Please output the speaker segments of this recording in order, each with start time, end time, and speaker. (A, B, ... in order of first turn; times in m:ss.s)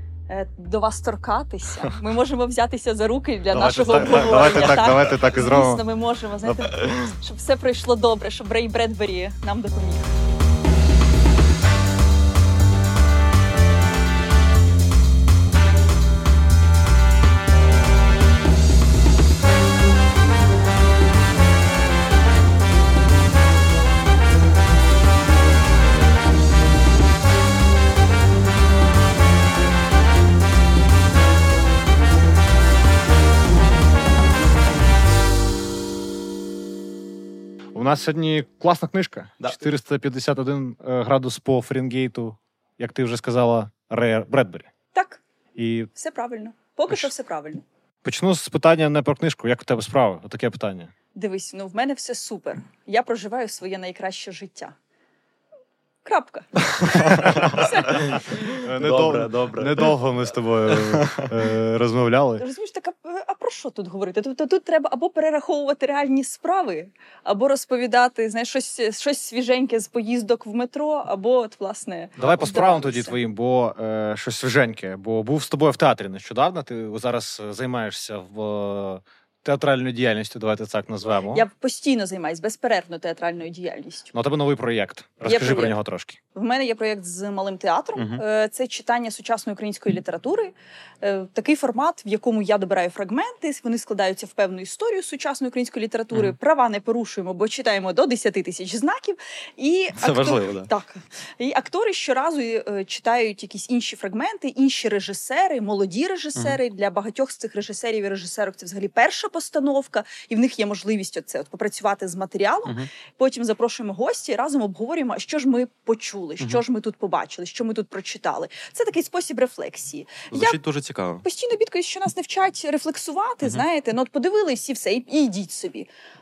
0:00.3-0:10.1 A
0:03.5-0:05.8 B
0:06.4-0:06.7 B
0:37.7-0:44.7 B
0:44.9-0:45.2 A
0:45.6-0:45.9 B
0:46.0-0:47.6 A
0:48.0-0:50.9 B
0:51.1-0:54.7 A
0:56.0-0:58.5 A
0:56.7-0:59.9 C
0:57.2-0:57.5 B
0:58.6-1:02.4 B
1:00.7-1:01.3 C
1:02.4-1:13.2 A
1:12.2-1:21.5 B
1:21.3-1:24.1 A
1:24.1-1:26.2 B
1:25.2-1:25.8 A
1:26.3-2:00.6 A
1:28.0-1:28.2 C
1:40.0-1:40.7 C
2:00.3-2:01.2 C
2:01.2-2:05.9 A